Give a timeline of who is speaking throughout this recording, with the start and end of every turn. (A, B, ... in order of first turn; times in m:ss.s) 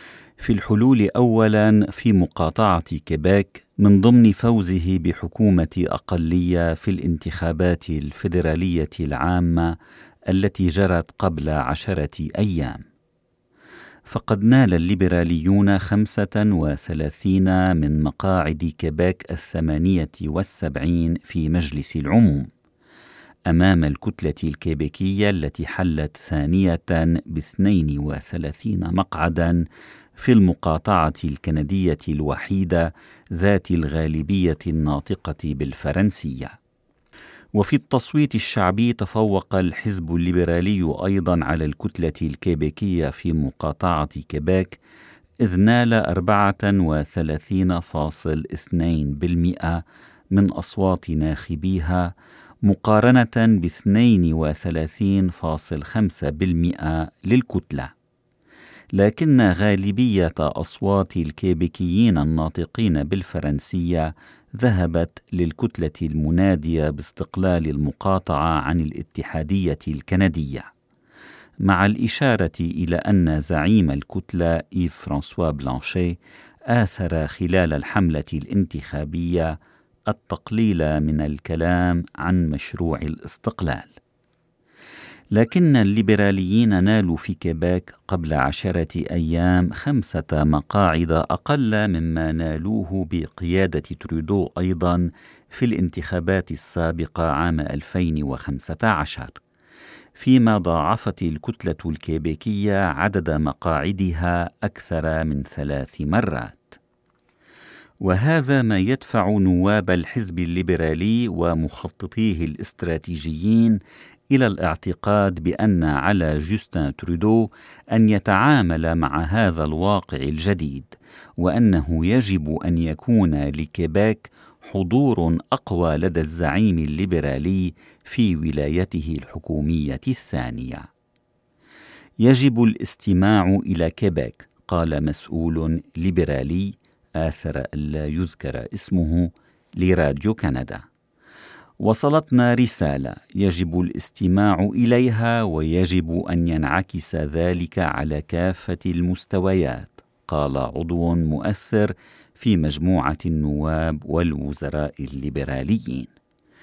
0:00.4-0:09.8 A
0:10.3-0:12.8 A
0:14.1-0:22.5 A
0:23.5-0:29.6 A
0:30.2-0:36.6 A
0:37.6-0:44.8 A
0:45.4-0:52.1 A
0:52.6-0:57.9 A
0:58.9-1:10.7 A
1:11.6-1:16.2 A
1:16.7-1:19.5 A
1:20.1-1:24.0 A
1:25.3-1:39.3 A
1:40.2-1:46.8 A
1:48.0-2:10.9 A
2:12.2-2:20.8 A
2:21.8-2:36.1 A